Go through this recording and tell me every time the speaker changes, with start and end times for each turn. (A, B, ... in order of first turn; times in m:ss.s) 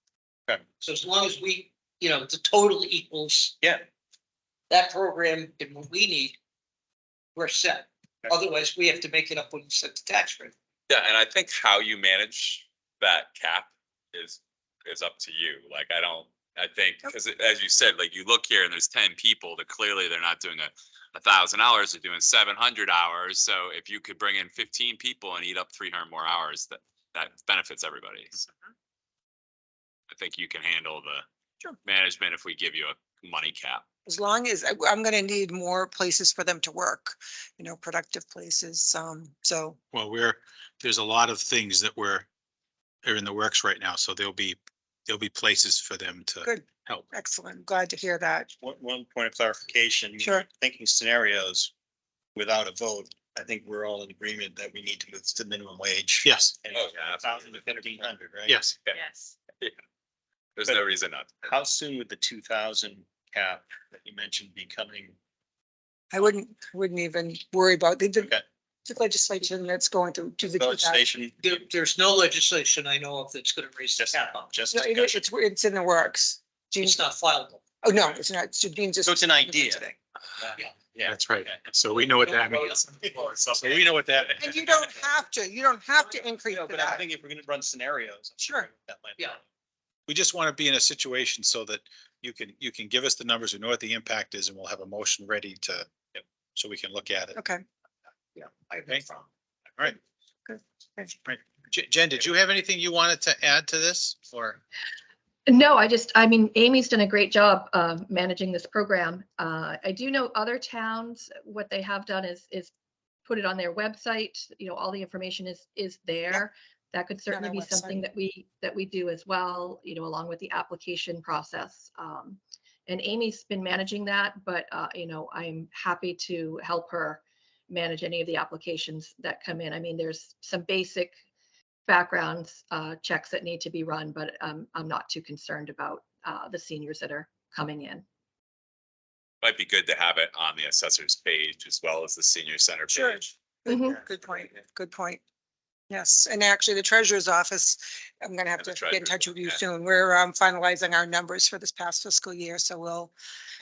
0:00.8-0:03.5 A
0:04.7-0:06.4 A
0:07.4-0:10.5 A
0:10.9-0:28.4 B
0:30.1-0:31.3 B
0:31.8-0:33.8 B
0:34.1-0:39.8 C
0:39.9-0:42.3 D
0:43.0-0:47.1 D
0:46.4-0:48.5 C
0:48.6-0:51.7 E
0:50.2-0:50.5 C
0:52.4-0:58.7 E
0:56.2-0:56.6 D
0:56.7-0:57.9 B
0:58.5-0:58.8 D
1:00.6-1:01.5 B
1:01.5-1:05.2 E
1:06.1-1:08.3 C
1:08.2-1:08.5 E
1:08.9-1:11.0 C
1:10.6-1:11.5 E
1:11.4-1:14.5 A
1:14.0-1:15.3 E
1:14.7-1:17.0 C
1:16.9-1:17.6 A
1:17.8-1:19.9 C
1:19.0-1:21.6 E
1:21.0-1:24.6 D
1:22.0-1:22.8 A
1:23.0-1:23.5 E
1:24.4-1:27.0 C
1:26.4-1:29.4 E
1:28.4-1:28.7 C
1:30.1-1:35.9 D
1:36.6-1:37.4 D
1:37.4-1:37.6 C
1:38.4-1:39.2 A
1:40.5-1:41.1 C
1:41.2-1:44.6 D
1:45.5-1:52.7 F
1:53.2-2:11.1 F
1:57.3-1:58.0 C
2:11.9-2:18.0 F
2:19.4-2:23.3 B
2:22.9-2:25.2 C
2:23.7-2:24.0 F
2:25.9-2:33.1 C
2:28.6-2:29.6 B